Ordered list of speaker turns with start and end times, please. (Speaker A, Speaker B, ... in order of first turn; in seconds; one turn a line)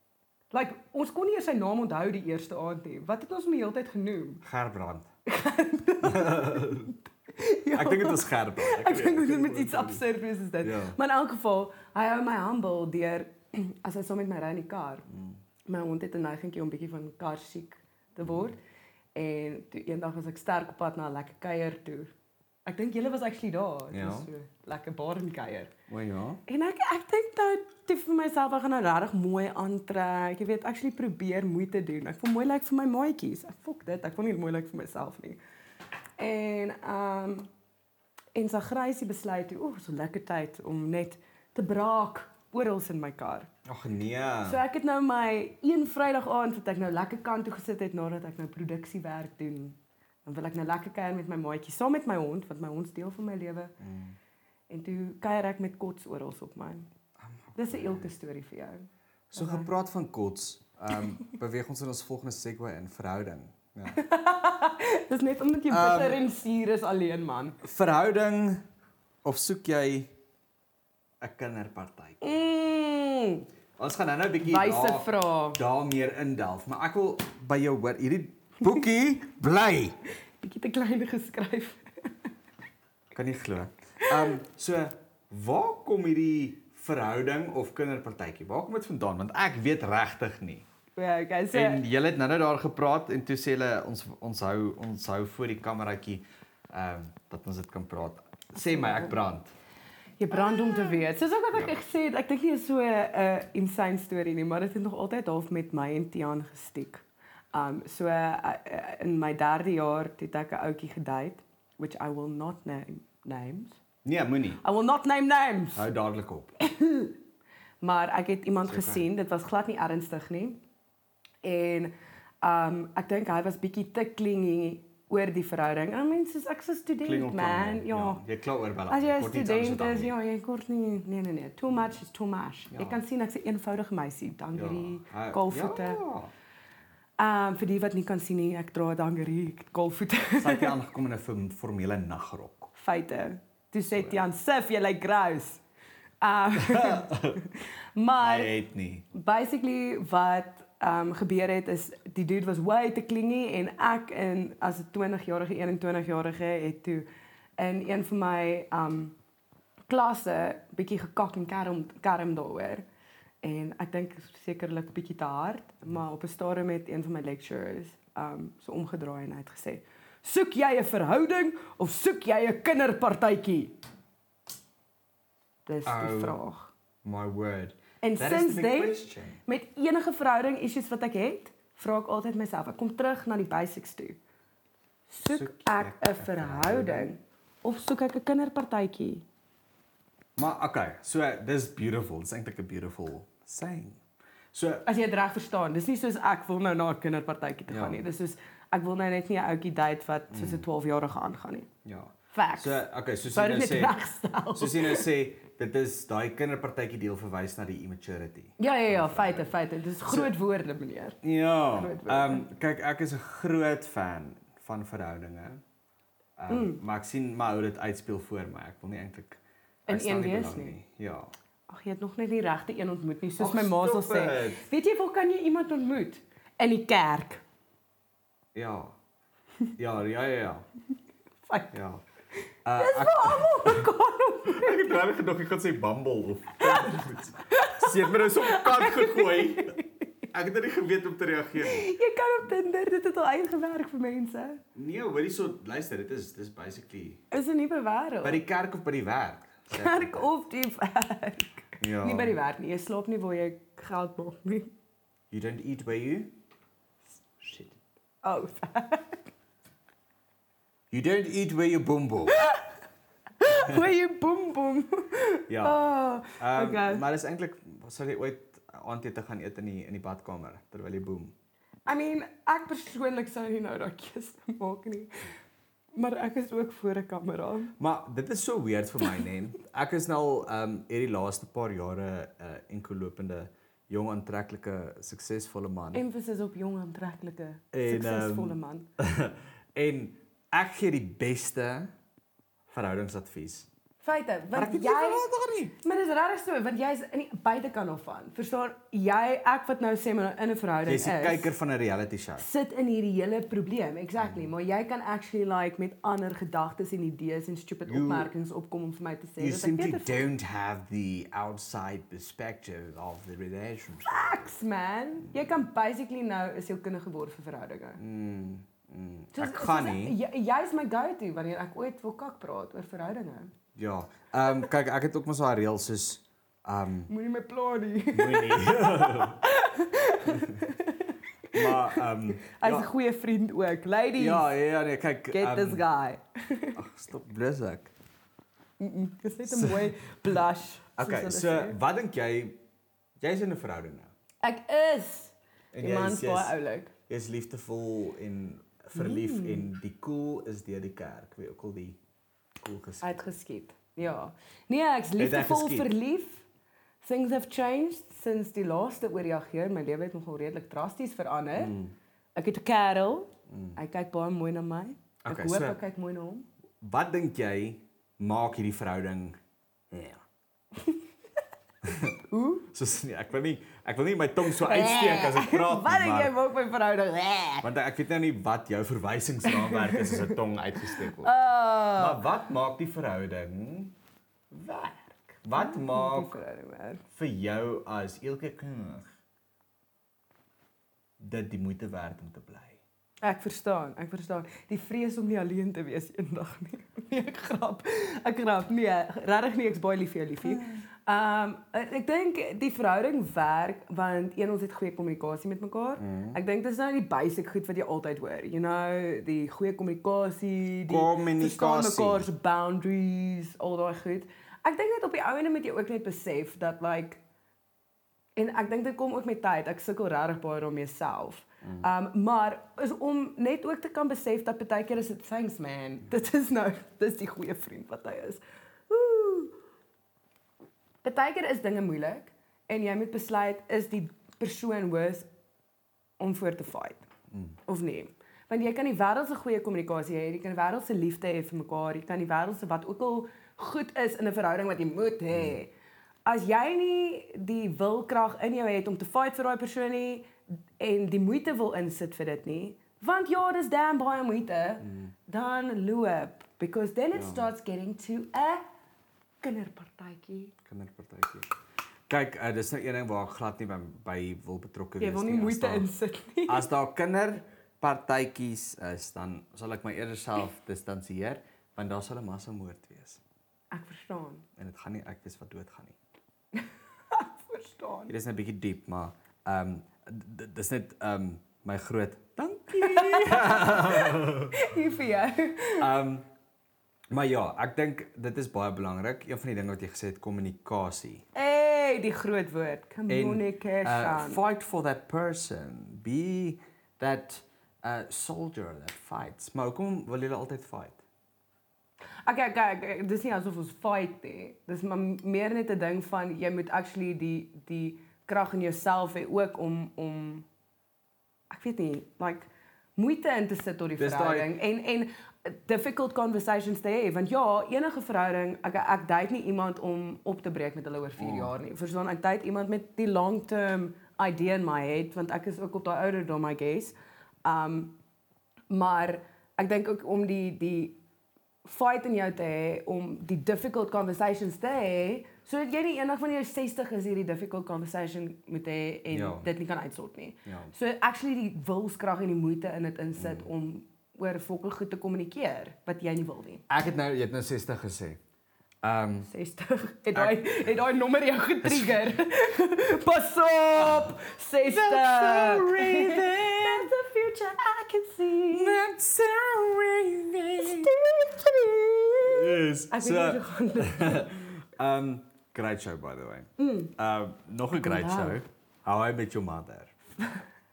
Speaker A: 0.5-4.4
Speaker B: 4.4-5.1
Speaker A: 5.2-15.1
Speaker B: 6.0-6.9
Speaker B: 7.7-10.0
Speaker B: 10.6-11.0
Speaker B: 15.1-15.4
Speaker A: 15.7-18.6
Speaker A: 19.1-22.1
Speaker A: 22.6-25.7
Speaker B: 23.9-24.3
Speaker B: 25.9-26.4
Speaker A: 26.4-35.4
Speaker A: 36.2-37.5
Speaker A: 38.3-43.5
Speaker B: 43.6-44.6
Speaker A: 44.4-53.7
Speaker B: 53.8-54.1
Speaker A: 54.7-56.9
Speaker B: 57.2-58.1
Speaker A: 57.5-59.7
Speaker B: 59.3-64.0
Speaker A: 63.9-67.6
Speaker B: 65.7-66.2
Speaker B: 67.6-68.6
Speaker B: 69.2-70.1
Speaker B: 71.2-72.2
Speaker A: 72.2-73.5
Speaker B: 73.8-79.9
Speaker A: 74.4-75.6
Speaker A: 80.4-82.3
Speaker B: 83.1-90.7
Speaker A: 84.0-84.3
Speaker A: 91.0-91.8
Speaker B: 91.5-99.5
Speaker A: 98.6-99.1
Speaker A: 100.2-113.8
Speaker B: 114.0-114.6
Speaker A: 114.6-115.8
Speaker B: 115.7-116.5
Speaker A: 116.6-117.2
Speaker A: 117.8-120.6
Speaker B: 118.6-119.0
Speaker A: 121.4-128.2
Speaker B: 127.0-130.1
Speaker A: 128.9-136.0
Speaker B: 134.5-136.3
Speaker A: 137.2-140.7
Speaker B: 140.3-142.7
Speaker A: 142.8-145.6
Speaker B: 143.9-144.2
Speaker A: 146.2-148.5
Speaker B: 146.5-147.4
Speaker B: 148.2-149.1
Speaker A: 149.1-157.1
Speaker A: 157.6-159.2
Speaker A: 159.9-162.8
Speaker A: 163.4-173.7
Speaker A: 175.7-176.7
Speaker B: 175.8-176.4
Speaker B: 177.0-179.4
Speaker A: 178.0-184.2
Speaker A: 185.1-189.2
Speaker B: 185.3-187.1
Speaker B: 190.4-194.0
Speaker B: 194.5-194.8
Speaker A: 194.8-201.7
Speaker B: 197.7-198.0
Speaker B: 200.3-200.6
Speaker B: 201.8-203.9
Speaker A: 202.3-205.1
Speaker B: 204.5-209.5
Speaker A: 208.6-211.2
Speaker B: 210.0-210.3
Speaker B: 211.2-215.6
Speaker A: 211.7-212.4
Speaker B: 216.4-221.3
Speaker A: 216.5-216.8
Speaker A: 219.9-220.8
Speaker A: 221.7-227.4
Speaker B: 223.4-224.6
Speaker B: 228.5-228.9
Speaker B: 229.8-230.7
Speaker A: 231.4-231.7
Speaker B: 231.7-232.0
Speaker B: 232.6-233.9
Speaker A: 232.8-235.0
Speaker B: 234.4-239.8
Speaker A: 236.6-240.0
Speaker B: 240.3-241.9
Speaker A: 241.6-244.6
Speaker B: 244.7-247.2
Speaker A: 247.3-248.4
Speaker B: 248.2-250.3
Speaker A: 249.7-254.7
Speaker B: 251.8-252.4
Speaker B: 255.3-256.3
Speaker B: 257.4-257.8
Speaker A: 258.2-259.2
Speaker B: 260.9-262.4
Speaker A: 262.3-262.6
Speaker A: 263.4-267.0
Speaker B: 263.5-263.8
Speaker B: 265.5-265.8
Speaker B: 266.3-271.3
Speaker A: 271.9-275.1
Speaker A: 275.9-277.7
Speaker B: 277.8-286.0
Speaker A: 285.9-288.9
Speaker B: 287.7-291.9
Speaker B: 292.7-293.7
Speaker A: 294.0-295.2
Speaker B: 294.5-295.7
Speaker A: 295.8-301.5
Speaker B: 300.9-302.4
Speaker A: 302.4-310.3
Speaker B: 307.9-308.3
Speaker B: 309.4-314.3
Speaker A: 314.1-318.0
Speaker B: 318.0-320.2
Speaker A: 319.3-323.5
Speaker B: 323.8-327.1
Speaker A: 327.1-334.5
Speaker B: 328.1-329.4
Speaker B: 330.2-330.6
Speaker B: 331.5-332.9
Speaker B: 334.2-335.8
Speaker A: 335.3-336.8
Speaker B: 336.7-337.9
Speaker A: 338.8-341.8
Speaker B: 339.4-339.9
Speaker B: 341.0-342.6
Speaker B: 343.2-344.1
Speaker A: 344.4-346.9
Speaker B: 345.7-346.6
Speaker B: 347.1-352.0
Speaker A: 348.9-349.7
Speaker B: 352.6-353.2
Speaker A: 353.0-356.4
Speaker B: 355.2-355.9
Speaker A: 357.0-361.7
Speaker B: 361.6-361.9
Speaker A: 362.3-366.4
Speaker B: 363.5-363.8
Speaker B: 365.2-365.8
Speaker B: 366.8-369.4
Speaker B: 369.9-370.2
Speaker B: 371.8-372.1
Speaker A: 372.3-372.7
Speaker B: 372.7-376.3
Speaker A: 374.5-377.6
Speaker B: 377.6-381.3
Speaker A: 379.4-380.4
Speaker A: 380.9-382.2
Speaker B: 381.9-383.9
Speaker A: 384.5-387.0
Speaker B: 385.4-386.4
Speaker B: 387.1-389.1
Speaker B: 391.2-392.8
Speaker A: 393.2-417.2
Speaker B: 400.5-400.8
Speaker B: 406.0-406.4
Speaker B: 410.9-412.3
Speaker A: 418.4-429.6
Speaker A: 431.0-435.3
Speaker A: 436.2-437.1
Speaker A: 437.6-445.7
Speaker A: 446.2-458.6
Speaker B: 454.8-455.1
Speaker B: 457.1-457.4
Speaker A: 459.4-460.5
Speaker B: 460.6-461.5
Speaker B: 462.1-465.9
Speaker A: 465.0-466.7
Speaker B: 466.5-473.2
Speaker A: 473.7-474.4
Speaker B: 474.6-476.0
Speaker A: 476.5-478.1
Speaker B: 478.1-484.6
Speaker A: 482.8-485.9
Speaker B: 485.8-486.3
Speaker B: 487.1-491.2
Speaker A: 491.3-494.4
Speaker B: 493.1-501.0
Speaker A: 502.2-510.5
Speaker A: 511.5-527.9
Speaker B: 514.0-514.5
Speaker B: 521.2-521.5
Speaker A: 528.7-531.0
Speaker A: 531.6-546.6
Speaker B: 539.1-539.5
Speaker B: 540.5-540.7
Speaker B: 543.2-543.5
Speaker B: 546.7-548.2
Speaker B: 548.8-549.3
Speaker A: 549.3-558.8
Speaker B: 550.1-550.5
Speaker B: 551.6-552.0
Speaker B: 554.7-556.9
Speaker B: 558.5-560.9
Speaker A: 560.6-564.4
Speaker B: 562.2-569.9
Speaker A: 566.6-566.9
Speaker A: 567.7-568.4